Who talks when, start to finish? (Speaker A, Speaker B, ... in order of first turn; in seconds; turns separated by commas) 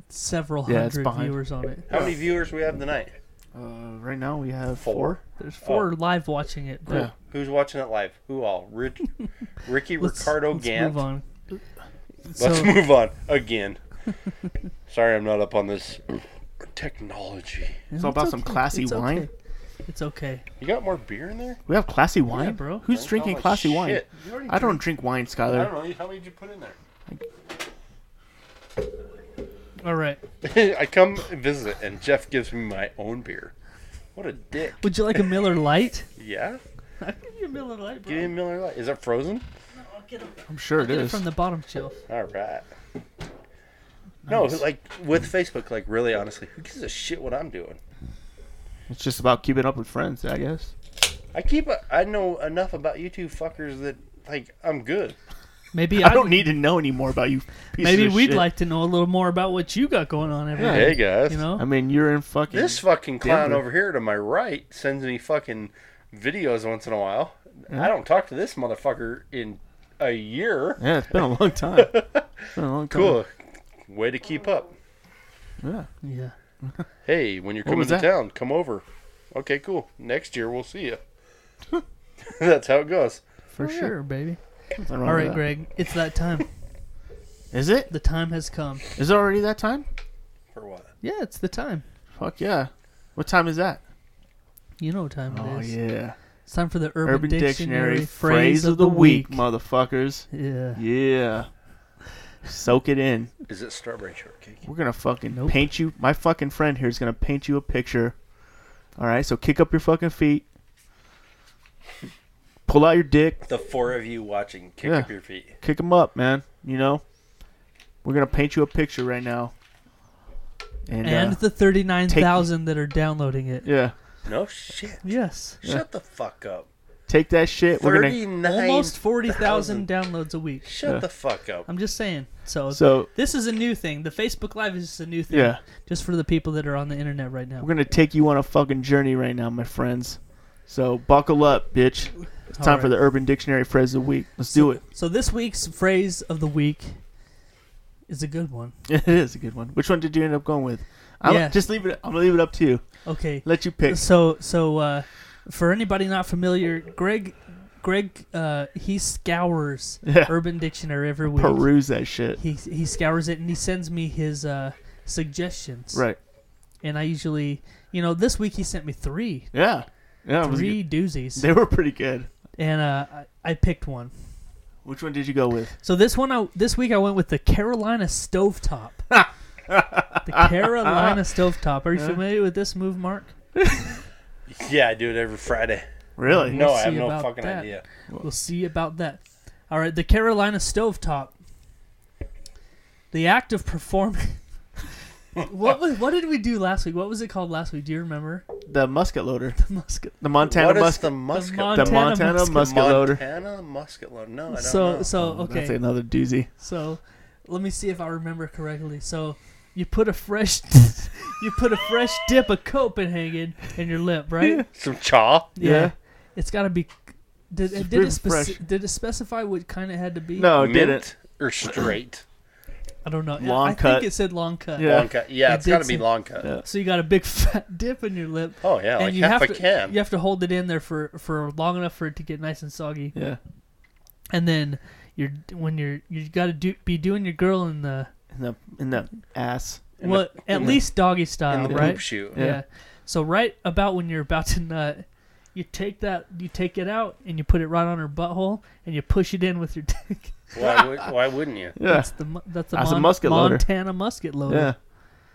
Speaker A: 0.1-1.9, Speaker B: 0.7-1.4, Speaker C: 1.9-3.1, Speaker B: 3.5-5.2, Speaker C: 4.8-5.9, Speaker A: 5.4-7.1, Speaker B: 6.9-7.1, Speaker C: 7.2-9.1, Speaker C: 9.6-11.0, Speaker A: 10.0-11.2, Speaker A: 12.2-12.8, Speaker C: 12.4-13.8, Speaker C: 14.9-17.8, Speaker A: 17.9-19.3, Speaker B: 18.0-19.3, Speaker A: 19.9-20.4, Speaker C: 20.6-21.6, Speaker B: 21.7-25.7, Speaker A: 22.3-22.9, Speaker C: 22.8-24.8, Speaker C: 25.5-26.8, Speaker A: 29.8-30.2, Speaker C: 30.4-33.5, Speaker C: 34.1-35.2, Speaker A: 34.8-36.1, Speaker C: 36.2-36.6, Speaker A: 37.0-38.3, Speaker C: 38.1-39.4, Speaker A: 39.7-42.0, Speaker B: 40.5-41.2, Speaker C: 42.1-42.7, Speaker B: 44.3-44.6, Speaker C: 44.3-47.8, Speaker B: 48.9-50.7, Speaker C: 51.3-55.1, Speaker A: 55.7-56.5, Speaker B: 55.9-58.5, Speaker A: 57.8-61.6, Speaker B: 60.6-63.6, Speaker C: 60.6-61.4, Speaker C: 62.5-70.8, Speaker B: 70.8-72.0, Speaker C: 71.7-72.3, Speaker B: 72.5-73.2, Speaker C: 72.9-73.3, Speaker C: 73.8-74.7, Speaker B: 75.6-75.9, Speaker A: 76.0-76.3, Speaker C: 77.0-81.0, Speaker B: 77.6-78.1, Speaker C: 82.3-83.2, Speaker A: 83.5-84.4, Speaker B: 83.6-83.9, Speaker B: 84.8-85.5, Speaker A: 85.0-86.5, Speaker B: 87.5-87.9, Speaker A: 87.9-88.8, Speaker B: 89.0-89.9, Speaker C: 90.5-90.9, Speaker A: 91.0-91.8, Speaker B: 92.1-93.8, Speaker A: 94.8-95.8, Speaker B: 95.3-96.2, Speaker A: 96.5-99.4, Speaker B: 97.0-101.5, Speaker A: 100.3-100.8, Speaker B: 102.5-103.3, Speaker C: 103.5-104.6, Speaker B: 104.6-108.2, Speaker A: 105.3-105.7, Speaker B: 109.0-110.4, Speaker B: 112.7-113.4, Speaker C: 113.5-115.5, Speaker B: 114.8-115.1, Speaker B: 115.6-117.0, Speaker B: 118.0-119.5, Speaker B: 120.9-122.5, Speaker A: 121.0-123.7, Speaker B: 123.6-123.9, Speaker C: 124.2-125.0, Speaker A: 125.0-125.6, Speaker C: 125.6-126.7, Speaker B: 127.1-128.2, Speaker C: 127.8-129.9, Speaker A: 128.4-130.7, Speaker C: 130.6-131.7, Speaker A: 131.7-137.7, Speaker B: 132.7-133.1, Speaker B: 135.3-135.6, Speaker B: 137.6-144.8, Speaker A: 142.5-142.9, Speaker A: 144.5-147.0, Speaker A: 148.1-148.7, Speaker B: 148.9-152.8, Speaker A: 151.2-151.6, Speaker A: 153.0-161.7, Speaker B: 153.4-154.1, Speaker B: 160.0-160.4, Speaker B: 161.2-162.4, Speaker A: 162.3-166.0, Speaker B: 165.9-166.2, Speaker A: 166.8-169.5, Speaker B: 169.5-172.3, Speaker A: 170.4-171.5, Speaker A: 172.6-174.1, Speaker B: 174.8-175.7, Speaker A: 175.8-179.0, Speaker B: 179.1-181.2, Speaker A: 180.2-183.3, Speaker B: 181.9-182.2, Speaker B: 183.6-183.9, Speaker C: 184.5-185.8, Speaker B: 186.2-186.7, Speaker A: 186.2-191.3, Speaker C: 186.5-187.8, Speaker A: 193.1-194.4, Speaker A: 195.4-198.4, Speaker B: 198.7-199.6, Speaker A: 199.6-200.2, Speaker B: 200.2-203.2, Speaker C: 200.4-205.1, Speaker A: 201.3-202.8, Speaker A: 204.5-205.8, Speaker B: 205.2-206.5, Speaker A: 206.6-214.6, Speaker B: 214.4-214.7, Speaker C: 214.7-215.5, Speaker A: 215.6-220.5, Speaker B: 215.6-215.9, Speaker B: 217.7-218.6, Speaker B: 220.4-221.1, Speaker C: 220.6-222.2, Speaker A: 223.0-226.1, Speaker B: 223.4-224.1, Speaker B: 224.8-225.1, Speaker C: 224.8-226.5, Speaker A: 226.6-233.1, Speaker C: 228.6-229.9, Speaker B: 233.1-233.4, Speaker A: 234.3-238.1, Speaker B: 238.3-239.8, Speaker C: 240.0-240.8, Speaker A: 240.0-250.4, Speaker B: 240.5-240.8, Speaker C: 241.5-242.4, Speaker B: 241.6-242.6, Speaker C: 250.5-251.8, Speaker B: 251.8-252.1, Speaker A: 251.8-254.7, Speaker B: 252.7-253.7, Speaker B: 254.4-254.8